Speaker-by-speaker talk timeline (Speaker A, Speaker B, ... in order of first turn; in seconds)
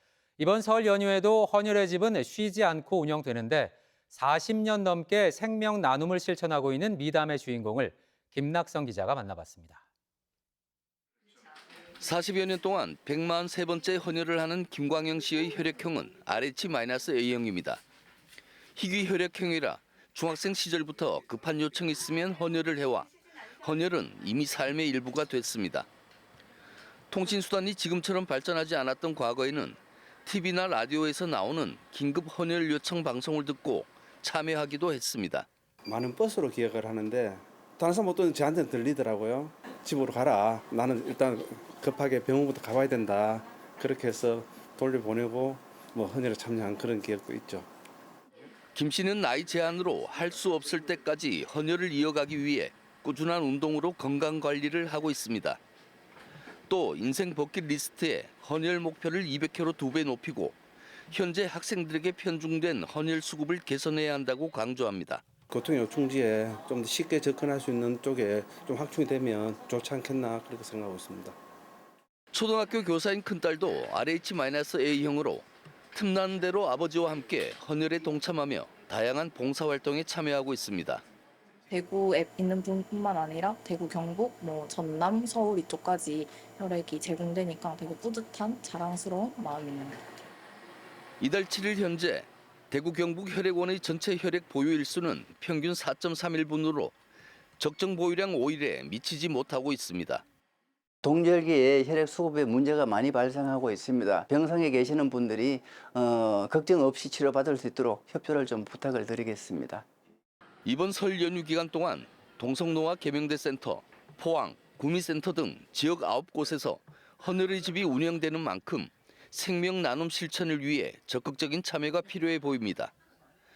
Speaker A: 0.4-9.8
Speaker B: 12.0-17.8, 18.8-23.1, 23.6-25.9, 27.1-35.5, 48.7-55.6, 56.7-60.6, 61.1-65.2, 72.3-81.0, 91.2-96.9, 97.6-100.2, 110.6-122.9
Speaker C: 35.8-47.7, 65.5-71.3
Speaker D: 81.7-90.0
Speaker E: 101.0-109.8